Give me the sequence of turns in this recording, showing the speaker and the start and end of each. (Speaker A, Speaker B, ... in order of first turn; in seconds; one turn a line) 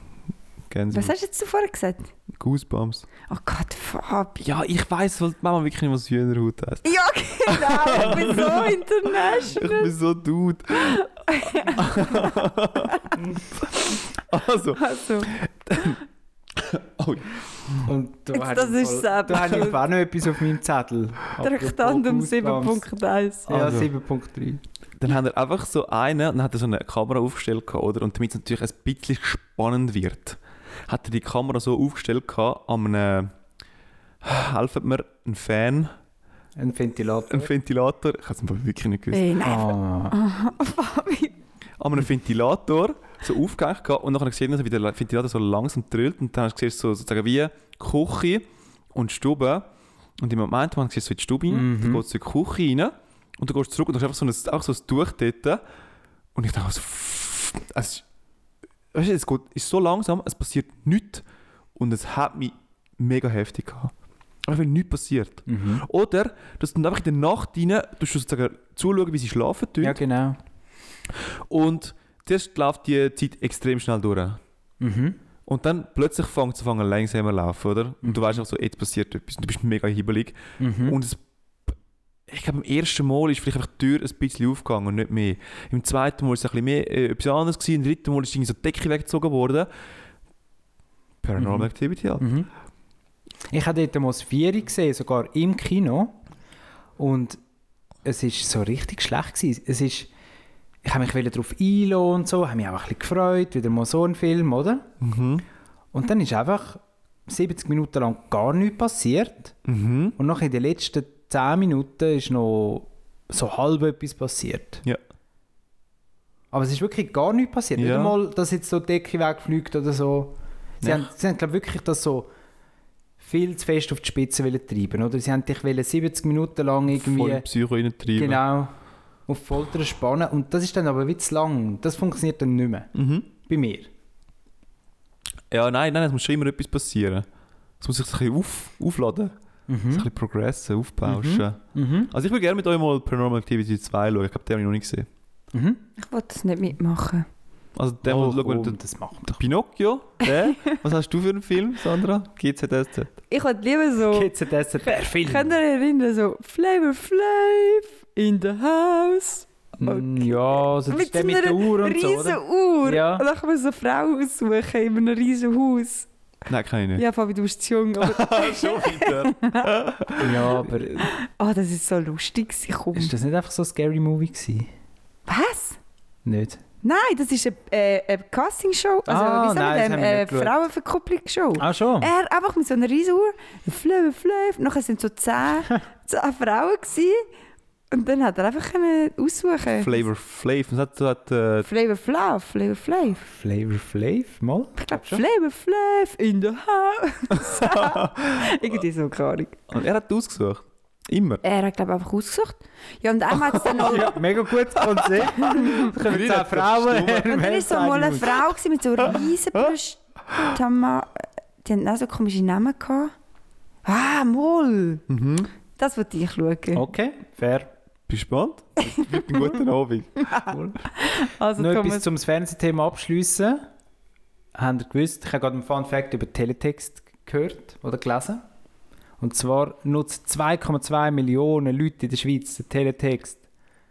Speaker A: 0.7-1.1
Speaker B: 0.9-2.1
Speaker A: 2.3-3.1
Speaker B: 3.3-4.4
Speaker A: 4.4-6.9
Speaker B: 6.8-9.9
Speaker A: 7.4-11.0
Speaker B: 10.8-12.4
Speaker A: 11.6-13.1
Speaker A: 13.7-16.0
Speaker B: 14.8-15.3
Speaker A: 16.5-17.8
Speaker C: 17.8-22.9
Speaker B: 18.3-19.8
Speaker B: 21.4-23.5
Speaker C: 23.5-24.6
Speaker A: 23.5-23.9
Speaker A: 25.0-33.3
Speaker A: 34.2-35.9
Speaker C: 36.6-37.5
Speaker A: 37.3-39.3
Speaker B: 39.1-41.4
Speaker C: 39.4-40.1
Speaker A: 41.8-55.6
Speaker C: 51.5-52.0
Speaker A: 56.4-58.0
Speaker A: 58.9-61.2
Speaker A: 61.8-63.9
Speaker A: 64.4-70.0
Speaker C: 65.5-65.8
Speaker C: 69.8-70.4
Speaker A: 71.2-74.4
Speaker C: 74.8-75.2
Speaker A: 75.5-81.8
Speaker C: 78.0-78.3
Speaker C: 80.6-81.0
Speaker A: 82.3-89.7
Speaker A: 91.2-92.3
Speaker C: 91.4-92.5
Speaker C: 93.5-96.2
Speaker C: 97.0-97.4
Speaker C: 98.0-100.1
Speaker C: 100.8-104.9
Speaker A: 105.0-105.4
Speaker C: 105.9-109.5
Speaker A: 109.7-110.2
Speaker C: 110.2-114.8
Speaker C: 116.5-122.3
Speaker A: 117.8-118.2
Speaker A: 120.8-121.1
Speaker C: 123.2-127.4
Speaker A: 126.9-128.4
Speaker C: 128.1-128.7
Speaker C: 129.3-133.9
Speaker A: 132.9-133.2
Speaker A: 135.5-137.2
Speaker A: 137.8-139.3
Speaker C: 139.7-140.1
Speaker A: 139.9-145.1
Speaker C: 141.0-142.1
Speaker C: 145.5-145.8
Speaker B: 146.0-147.2
Speaker A: 147.8-148.8
Speaker C: 148.0-149.4
Speaker A: 149.3-153.1
Speaker B: 153.3-166.1
Speaker C: 154.0-155.5
Speaker C: 159.8-163.3
Speaker A: 166.5-167.0
Speaker B: 167.0-169.7
Speaker A: 168.0-170.7
Speaker C: 170.2-171.1
Speaker B: 171.0-173.1
Speaker C: 172.9-174.7
Speaker B: 175.2-175.8
Speaker C: 176.2-176.6
Speaker B: 176.8-187.2
Speaker C: 179.1-180.6
Speaker C: 181.6-182.1
Speaker B: 187.9-190.0
Speaker A: 189.8-191.7
Speaker B: 191.6-193.2
Speaker C: 193.2-195.2
Speaker B: 194.8-199.7
Speaker A: 197.5-198.5
Speaker A: 199.7-201.4
Speaker B: 201.4-204.2
Speaker A: 203.5-204.0
Speaker C: 203.8-208.5
Speaker A: 204.8-207.3
Speaker B: 205.4-205.9
Speaker B: 207.3-213.1
Speaker B: 213.8-215.0
Speaker A: 215.1-215.5
Speaker B: 215.8-216.8
Speaker C: 216.8-217.7
Speaker A: 218.1-220.3
Speaker B: 219.2-219.5
Speaker C: 220.5-220.8
Speaker B: 221.0-222.1
Speaker C: 221.6-223.6
Speaker C: 224.5-228.4
Speaker C: 229.2-233.4